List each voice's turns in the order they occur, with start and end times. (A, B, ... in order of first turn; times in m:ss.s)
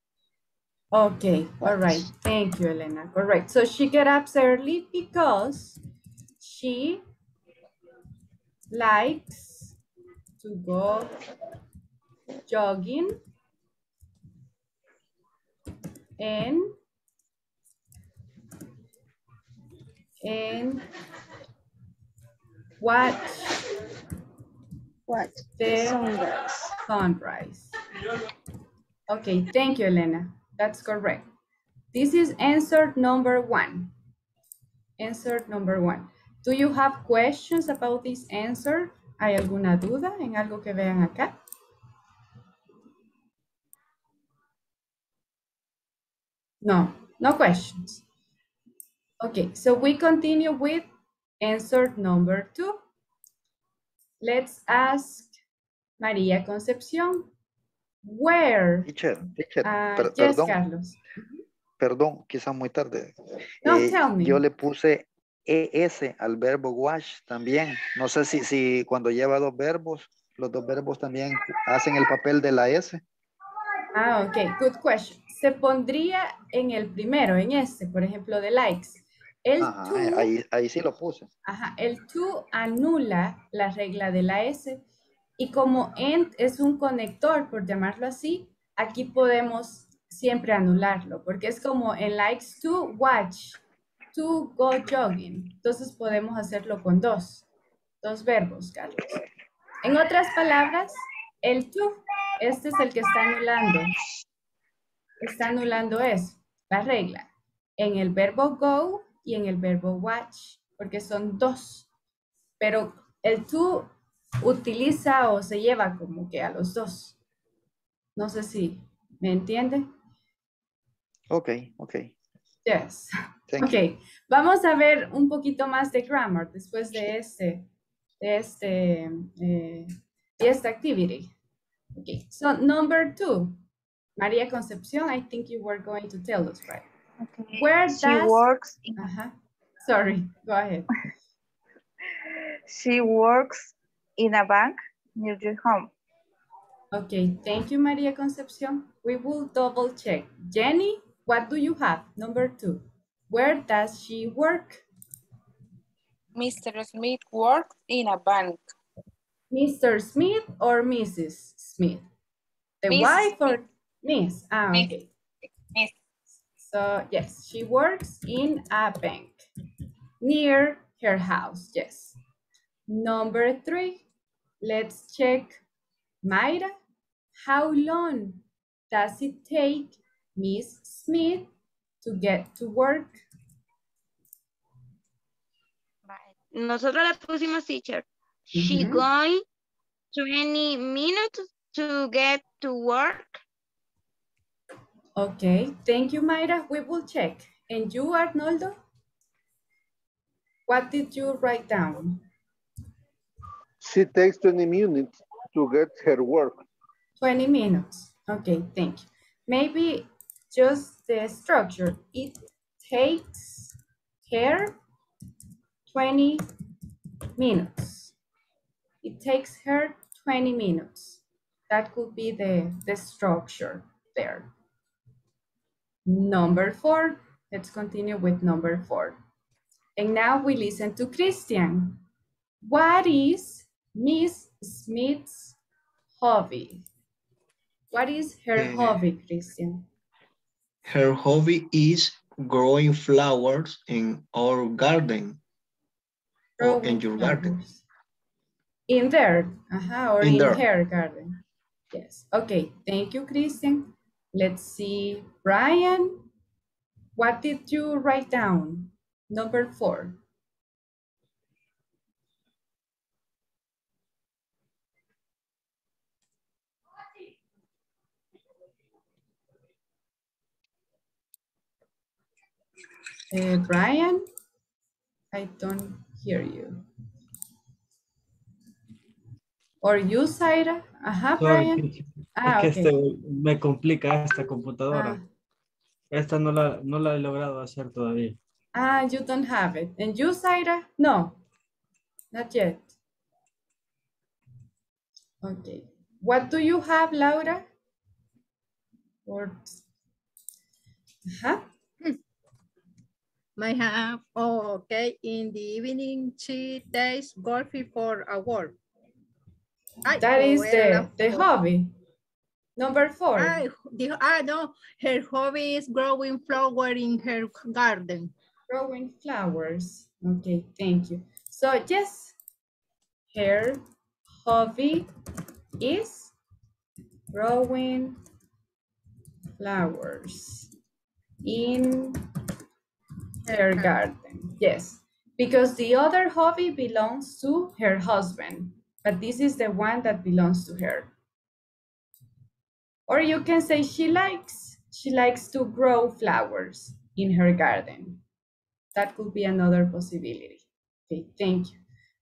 0:00.9-0:05.8 A
0:01.6-0:02.1 B
0:06.4-0:07.0 A
0:08.7-0:09.8 A
0:10.4-0:11.1 A
0:12.5-0:13.2 A
0:16.2-0:16.8 A
0:20.2-0:20.8 A
0:22.8-0:23.6 A
0:25.1-0:26.7 B
0:25.6-0:26.0 A
0:26.8-0:27.7 A
0:29.1-0:31.3 A
0:31.9-0:33.9 A
0:35.0-0:41.3 A
0:46.6-0:48.0 A
0:49.2-0:50.9 A
0:51.4-0:52.8 A
0:54.2-0:55.3 A
0:56.0-0:57.3 A
0:58.0-0:58.9 A
0:58.8-1:00.6 C
0:59.6-1:01.0 A
1:01.8-1:13.0 C
1:03.6-1:04.4 A
1:13.9-1:20.3 A
1:19.6-1:21.3 C
1:21.4-1:24.8 A
1:25.4-1:33.6 A
1:34.1-1:37.4 A
1:38.0-1:39.2 A
1:39.8-1:43.9 A
1:45.2-1:51.9 A
1:52.6-1:53.9 A
1:54.4-1:57.2 A
1:58.2-1:59.9 A
2:01.3-2:02.1 C
2:02.6-2:07.7 A
2:03.5-2:03.8 C
2:08.2-2:11.3 A
2:12.0-2:13.6 A
2:14.2-2:16.8 A
2:17.2-2:19.1 D
2:17.6-2:20.9 A
2:22.7-2:25.9 D
2:26.9-2:34.8 A
2:36.3-2:38.7 E
2:39.5-2:42.0 A
2:42.8-2:45.1 A
2:42.9-2:43.6 E
2:46.6-2:49.4 A
2:50.2-2:52.2 A
2:52.9-2:54.0 A
2:54.6-2:55.6 A
2:56.2-2:56.7 A
2:57.4-3:01.5 A
3:02.0-3:03.2 A
3:06.1-3:09.4 F
3:08.5-3:09.0 A
3:10.1-3:13.4 F
3:15.2-3:18.8 A
3:20.7-3:22.2 A
3:23.8-3:26.6 G
3:27.2-3:33.7 A
3:34.2-3:34.8 A
3:35.9-3:36.4 A
3:37.4-3:38.1 A
3:39.0-3:44.5 A
3:46.0-3:49.2 A
3:50.0-3:52.0 A
3:52.6-3:55.6 A
3:56.2-3:56.8 A
3:57.9-3:59.8 A
3:58.6-3:59.0 H
4:00.8-4:05.4 H
4:06.6-4:07.5 H
4:06.6-4:07.8 A
4:08.9-4:11.4 A
4:10.2-4:10.6 H
4:11.9-4:16.2 A
4:17.2-4:20.2 A
4:33.3-4:34.2 A
4:35.3-4:36.8 A
4:39.8-4:41.8 A
4:41.4-4:45.2 I
4:42.4-4:42.9 A
4:44.9-4:45.2 A
4:46.1-4:48.4 I
4:48.7-4:51.4 A
4:52.3-4:52.9 A
4:55.4-4:57.6 A
4:59.2-4:59.8 A
5:01.3-5:01.6 A
5:03.6-5:08.7 J
5:10.0-5:11.5 J
5:10.2-5:11.9 A
5:12.8-5:13.6 A
5:13.4-5:18.3 J
5:18.7-5:22.3 A
5:23.3-5:23.8 A
5:24.4-5:25.1 A
5:25.8-5:26.3 A
5:27.3-5:28.2 A
5:29.6-5:30.7 A
5:31.4-5:32.2 A
5:33.4-5:41.1 A
5:43.1-5:48.2 A
5:48.9-5:51.8 A